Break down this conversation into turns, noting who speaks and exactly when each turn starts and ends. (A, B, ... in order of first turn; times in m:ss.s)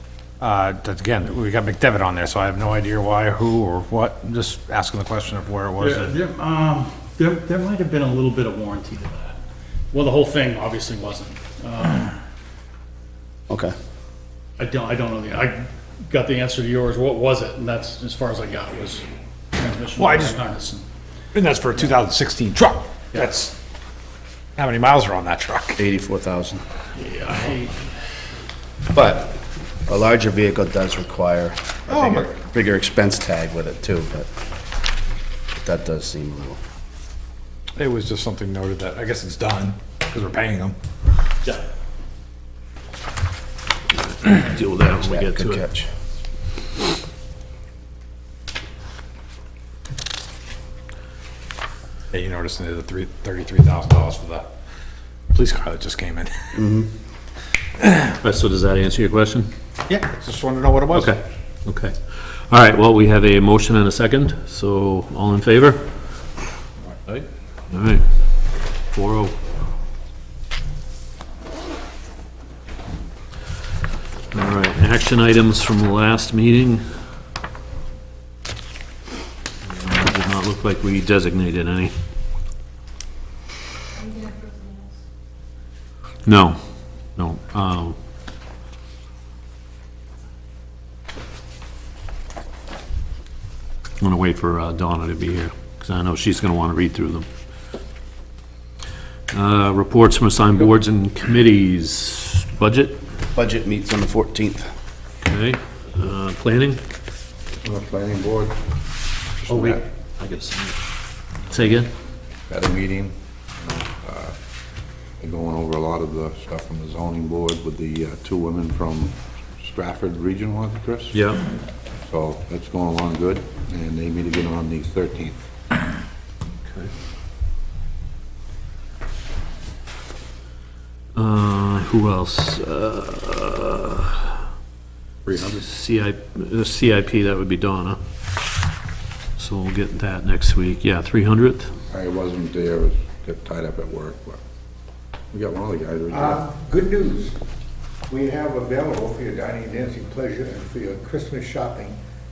0:00.4-0:06.2 A
0:05.8-0:09.4 B
0:09.9-0:12.2 B
0:13.5-0:13.8 C
0:14.6-0:20.9 B
0:20.0-0:20.4 A
0:21.3-0:23.6 A
0:24.6-0:25.8 A
0:25.8-0:26.6 C
0:27.0-0:27.8 B
0:28.9-0:34.3 C
0:31.9-0:32.3 A
0:35.6-0:36.6 C
0:37.8-0:40.8 A
0:44.0-0:45.7 D
0:45.0-0:45.9 C
0:52.1-0:54.5 A
0:55.3-0:56.6 A
0:56.6-0:56.9 C
0:58.1-0:59.5 D
0:59.9-1:01.2 A
1:00.9-1:05.8 D
1:07.1-1:08.0 D
1:08.9-1:09.4 D
1:14.3-1:16.9 D
1:19.6-1:21.9 D
1:26.3-1:26.6 D
1:27.2-1:28.0 D
1:34.0-1:37.3 D
1:39.3-1:43.0 D
1:43.3-1:44.7 C
1:45.2-1:46.8 D
1:47.6-1:48.6 E
1:49.4-1:49.8 E
1:49.5-1:50.8 D
1:51.5-1:51.9 D
1:52.5-1:54.3 E
1:55.2-2:01.2 E
2:01.1-2:01.4 D
2:02.1-2:05.4 E
2:11.2-2:14.4 D
2:15.2-2:15.6 E
2:15.4-2:18.0 D
2:19.4-2:21.7 D
2:21.9-2:24.4 E
2:25.3-2:26.4 E
2:26.1-2:27.0 A
2:27.0-2:27.4 F
2:28.1-2:32.0 F